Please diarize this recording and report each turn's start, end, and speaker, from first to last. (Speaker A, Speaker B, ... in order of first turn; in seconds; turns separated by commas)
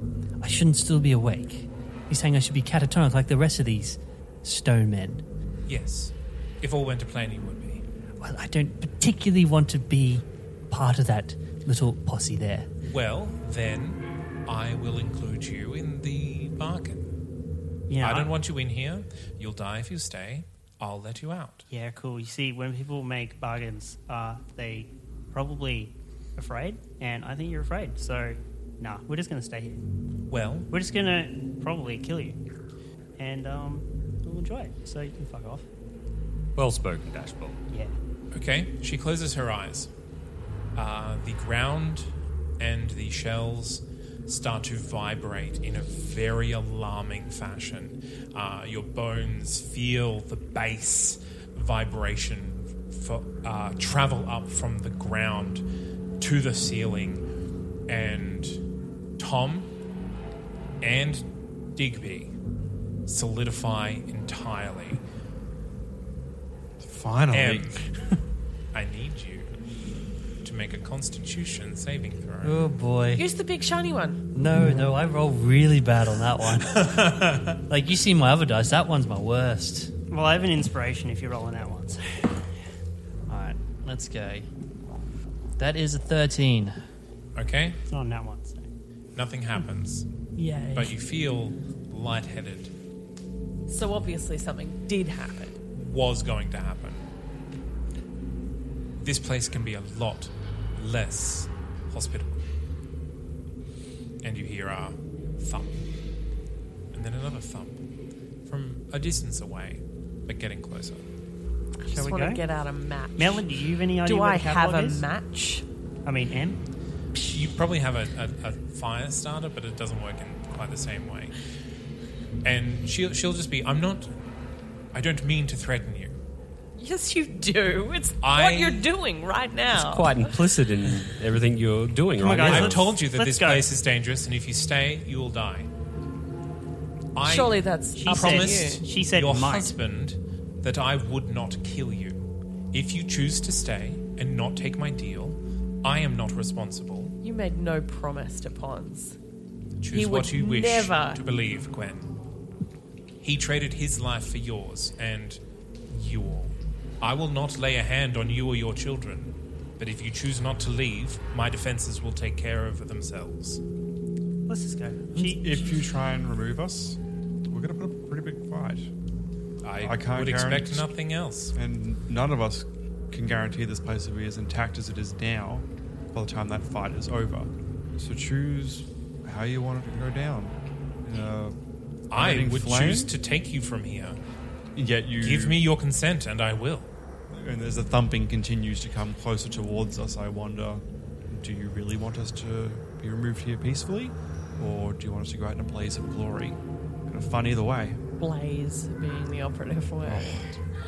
Speaker A: 0.4-5.2, Speaker B: 5.7-7.8, Speaker A: 8.2-12.7, Speaker B: 12.8-17.1, Speaker C: 17.9-18.3, Speaker B: 18.0-21.6, Speaker C: 21.7-29.8, Speaker B: 30.3-30.7, Speaker C: 30.7-32.4, Speaker C: 33.2-35.6, Speaker D: 36.6-37.6, Speaker B: 38.3-39.9, Speaker B: 40.8-55.6, Speaker B: 56.2-57.2, Speaker B: 57.9-58.6, Speaker B: 59.2-59.7, Speaker B: 60.8-62.3, Speaker B: 63.1-65.0, Speaker E: 66.8-67.8, Speaker B: 67.3-67.8, Speaker B: 68.7-69.5, Speaker B: 70.4-72.6, Speaker A: 72.4-73.2, Speaker F: 73.2-74.2, Speaker A: 74.3-76.8, Speaker B: 76.7-77.6, Speaker A: 77.7-79.9, Speaker C: 80.1-82.2, Speaker A: 83.3-84.5, Speaker A: 85.6-86.8, Speaker B: 87.4-87.8, Speaker C: 87.9-88.7, Speaker B: 89.2-90.1, Speaker C: 90.4-90.9, Speaker B: 90.7-92.7, Speaker F: 93.7-95.5, Speaker B: 95.7-97.0, Speaker B: 99.0-102.4, Speaker B: 104.2-105.8, Speaker B: 106.9-107.8, Speaker B: 108.5-111.0, Speaker F: 111.8-113.5, Speaker C: 111.9-112.4, Speaker C: 113.2-115.1, Speaker F: 114.0-115.6, Speaker C: 116.0-116.6, Speaker B: 117.2-121.3, Speaker B: 122.4-124.1, Speaker B: 124.9-126.2, Speaker F: 126.8-130.3, Speaker B: 128.2-128.9, Speaker D: 129.7-132.9, Speaker C: 132.2-133.7, Speaker B: 132.4-135.7, Speaker B: 137.1-147.2, Speaker F: 137.2-138.9, Speaker C: 137.9-139.7, Speaker F: 147.2-149.2, Speaker B: 149.8-152.1, Speaker F: 149.9-151.2, Speaker B: 153.2-163.6, Speaker C: 164.5-165.6, Speaker E: 165.1-168.9, Speaker B: 169.6-171.5, Speaker E: 169.8-170.9, Speaker E: 171.5-181.6, Speaker B: 182.1-184.2, Speaker E: 182.1-183.1, Speaker E: 184.8-185.7, Speaker B: 185.2-186.9, Speaker E: 187.3-198.0, Speaker F: 198.2-200.4, Speaker E: 200.0-200.6